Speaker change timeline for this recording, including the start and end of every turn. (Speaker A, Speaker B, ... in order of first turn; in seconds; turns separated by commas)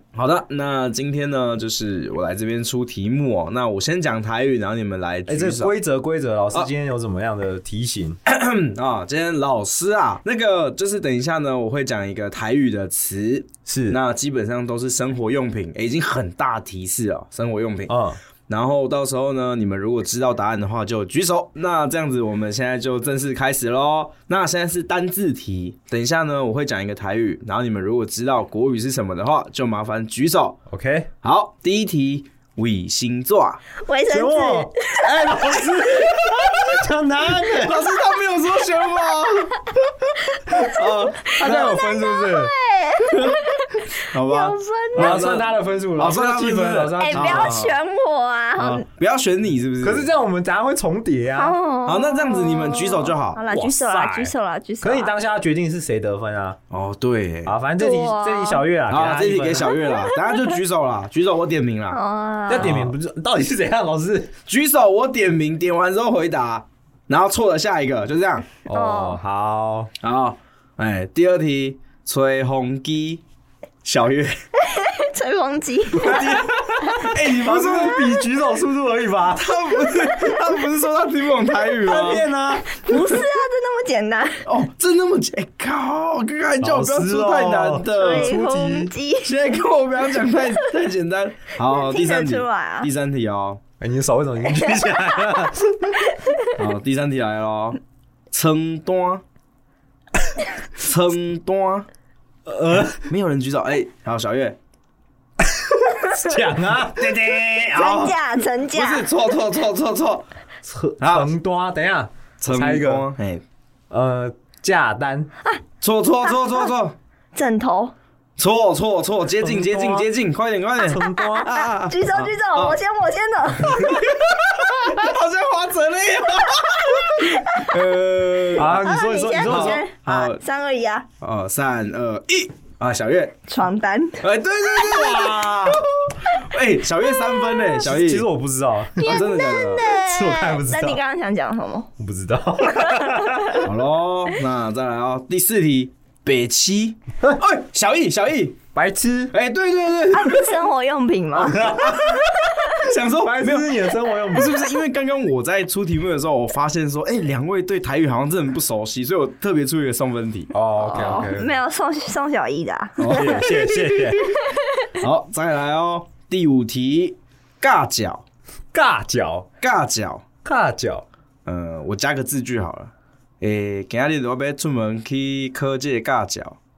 Speaker A: 0.1-5.7, Speaker B: 5.3-8.2, Speaker A: 8.3-18.0, Speaker B: 13.7-14.0, Speaker B: 17.9-18.2, Speaker A: 18.5-30.6, Speaker B: 30.7-31.1, Speaker A: 31.2-33.6, Speaker C: 33.8-35.0, Speaker B: 34.1-37.9, Speaker A: 37.5-39.7, Speaker C: 40.2-45.3, Speaker A: 40.5-42.3, Speaker B: 41.4-42.5, Speaker A: 43.1-47.8, Speaker B: 45.0-47.7, Speaker C: 47.0-48.9, Speaker A: 48.6-50.1, Speaker B: 49.8-51.6, Speaker C: 51.4-55.1, Speaker A: 51.9-53.4, Speaker B: 53.5-56.6, Speaker A: 56.7-57.5, Speaker B: 57.5-59.7, Speaker C: 57.8-58.6, Speaker A: 58.9-62.0, Speaker C: 61.9-62.8, Speaker B: 62.5-64.3, Speaker A: 62.6-62.9, Speaker A: 64.5-68.6, Speaker C: 68.7-69.2, Speaker B: 68.7-69.9, Speaker A: 70.0-73.2, Speaker A: 73.8-74.4, Speaker C: 74.6-76.2, Speaker A: 76.0-78.2, Speaker B: 76.0-79.6, Speaker A: 79.3-82.3, Speaker B: 81.8-82.7, Speaker C: 82.7-84.5, Speaker A: 84.5-88.4, Speaker B: 86.6-88.9, Speaker C: 87.9-89.3, Speaker A: 89.2-93.6, Speaker C: 91.7-92.9, Speaker B: 93.8-96.0, Speaker C: 96.2-96.6, Speaker A: 96.6-97.8, Speaker A: 98.3-99.2, Speaker A: 100.8-101.9, Speaker B: 102.5-103.1, Speaker A: 102.9-104.6, Speaker B: 105.4-107.2, Speaker A: 107.0-108.2, Speaker C: 107.7-109.1, Speaker A: 108.7-110.3, Speaker B: 110.6-113.1, Speaker A: 111.0-111.3, Speaker A: 112.4-113.4, Speaker B: 113.9-115.3, Speaker A: 115.8-117.0, Speaker C: 117.3-117.9, Speaker A: 118.4-122.8, Speaker B: 119.4-120.1, Speaker B: 120.8-121.5, Speaker C: 121.2-124.1, Speaker A: 123.7-128.8, Speaker C: 127.4-127.6, Speaker B: 128.5-129.8, Speaker C: 128.7-131.1, Speaker A: 129.4-130.4, Speaker A: 131.2-133.3, Speaker C: 133.5-134.2, Speaker A: 134.2-138.3, Speaker B: 134.8-135.8, Speaker C: 137.4-137.7, Speaker B: 137.8-139.2, Speaker C: 139.0-141.9, Speaker A: 139.0-139.9, Speaker B: 139.9-141.0, Speaker B: 142.0-143.7, Speaker C: 142.8-143.4, Speaker A: 143.6-148.6, Speaker B: 148.7-149.3, Speaker A: 149.3-150.6, Speaker C: 150.1-151.8, Speaker A: 151.5-152.2, Speaker B: 151.6-152.3, Speaker A: 152.7-160.5, Speaker B: 153.2-154.6, Speaker B: 160.5-161.6, Speaker C: 160.8-163.5, Speaker A: 163.0-164.2, Speaker B: 163.1-164.4, Speaker C: 164.5-164.9, Speaker A: 165.0-168.2, Speaker B: 168.7-169.5, Speaker A: 169.6-170.2, Speaker B: 170.4-171.1, Speaker A: 171.5-176.6